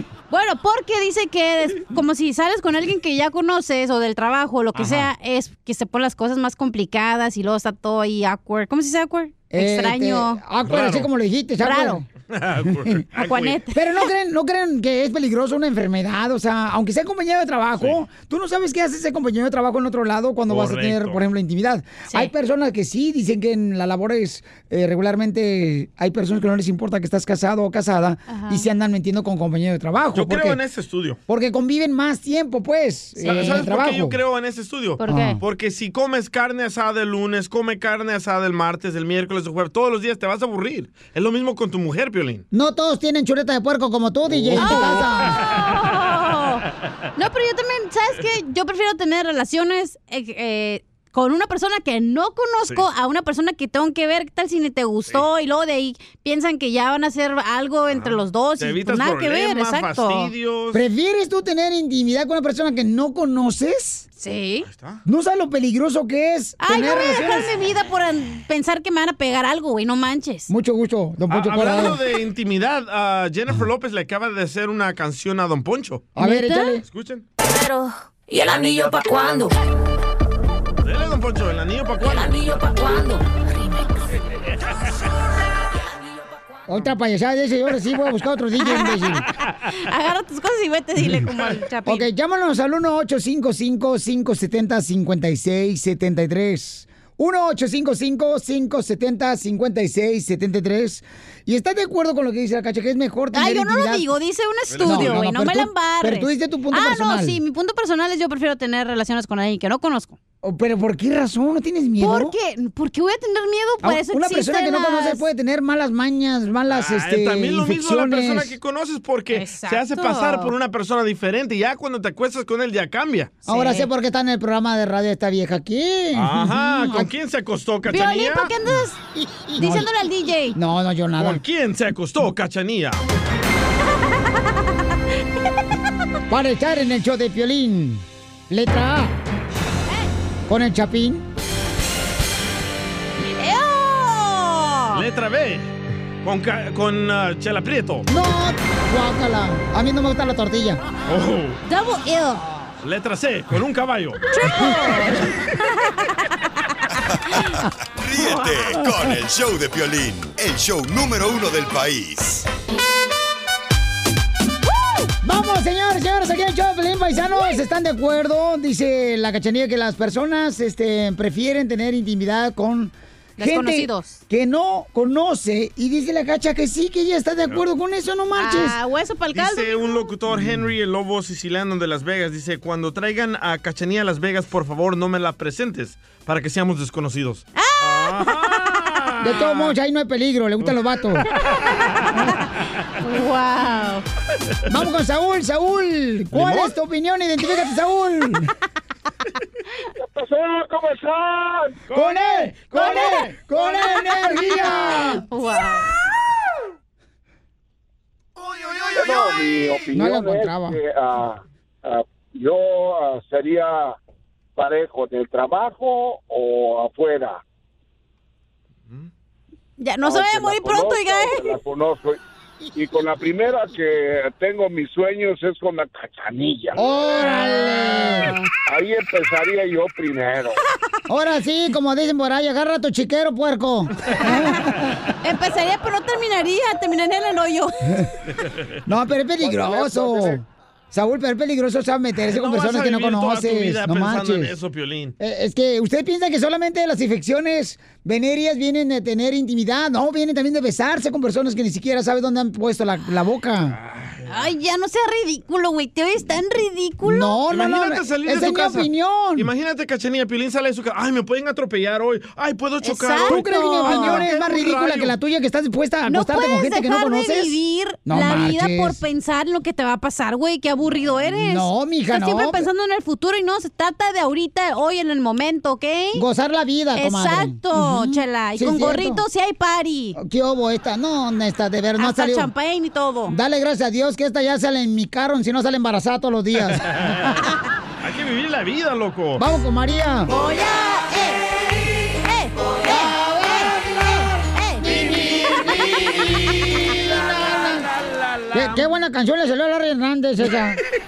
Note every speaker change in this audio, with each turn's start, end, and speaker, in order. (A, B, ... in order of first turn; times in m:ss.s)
0:00.3-0:10.4 A
0:04.8-0:05.1 B
0:09.5-0:12.0 C
0:10.6-0:11.1 B
0:11.6-0:12.0 A
0:12.3-0:13.6 B
0:12.7-0:13.0 C
0:13.2-0:14.1 A
0:13.7-0:30.6 C
0:20.5-0:21.2 B
0:28.3-0:28.7 A
0:30.1-0:31.2 B
0:31.3-0:34.2 C
0:33.2-0:33.6 A
0:33.3-0:42.4 B
0:35.0-0:35.4 A
0:35.1-0:35.4 C
0:42.5-0:45.4 C
0:44.3-0:44.6 B
0:44.6-0:46.6 A
0:47.2-1:00.3 A
0:57.9-1:00.8 B
1:00.7-1:04.1 C
1:04.2-1:04.7 A
1:04.6-1:05.0 B
1:05.1-1:07.5 C
1:06.6-1:10.5 A
1:10.5-1:12.0 C
1:11.3-1:16.1 B
1:16.2-1:16.8 C
1:16.2-1:16.8 A
1:16.8-1:17.2 B
1:17.4-1:19.5 D
1:20.8-1:22.4 B
1:22.0-1:23.9 D
1:26.7-1:29.3 C
1:28.6-1:32.1 A
1:31.8-1:44.1 C
1:43.3-1:50.2 A
1:44.7-1:45.2 B
1:44.8-1:47.4 C
1:50.4-1:52.3 C
1:52.0-1:55.2 A
1:53.8-1:58.6 C
1:56.7-2:03.4 B
1:59.3-2:00.5 A
2:03.5-2:07.1 C
2:03.5-2:03.9 A
2:06.1-2:08.5 B
2:07.9-2:09.0 A
2:09.2-2:09.9 C
2:09.5-2:10.6 A
2:10.5-2:11.4 C
2:11.2-2:13.0 B
2:16.3-2:19.2 C
2:20.5-2:21.3 C
2:23.4-2:25.0 A
2:24.9-2:28.1 B
2:28.1-2:30.8 C
2:31.1-2:31.6 B
2:31.7-2:32.4 A
2:32.8-2:34.2 B
2:34.3-2:36.2 A
2:38.0-2:42.5 E
2:45.2-2:58.8 C
2:53.4-2:54.2 A
2:58.4-3:00.1 A
2:59.3-3:09.7 B
3:00.3-3:00.6 C
3:07.6-3:08.7 A
3:09.2-3:11.3 C
3:11.4-3:12.4 A
3:13.0-3:14.0 A
3:14.7-3:18.5 C
3:16.3-3:16.7 B
3:20.0-3:21.8 F
3:21.9-3:23.3 B
3:21.9-3:25.2 C
3:24.3-3:25.9 A
3:28.9-3:34.0 F
3:29.9-3:30.8 C
3:34.6-3:37.4 F
3:39.8-3:41.6 A
3:40.0-3:42.2 F
3:42.8-3:46.7 F
3:46.8-3:48.3 C
3:48.0-3:48.4 A
3:48.7-3:50.6 F
3:51.1-3:54.9 C
3:54.2-3:54.5 A
3:55.2-3:58.1 A
3:58.9-4:04.6 C
4:02.2-4:05.1 B
4:05.2-4:13.8 C
4:13.8-4:14.5 B
4:14.3-4:17.4 A
4:17.0-4:19.5 C
4:17.5-4:25.1 B
4:22.8-4:24.3 A
4:23.3-4:29.0 C
4:26.1-4:36.2 A
4:31.3-4:32.7 C
4:36.1-4:39.2 C
4:37.0-4:40.2 A
4:40.2-4:42.5 C
4:42.0-4:43.4 A
4:43.3-4:47.1 C
4:48.0-4:49.4 B
4:49.4-4:50.3 C
4:50.3-4:56.8 A
4:52.9-4:53.7 C
4:54.8-4:57.9 C
4:58.0-4:58.8 B
4:58.5-5:00.8 C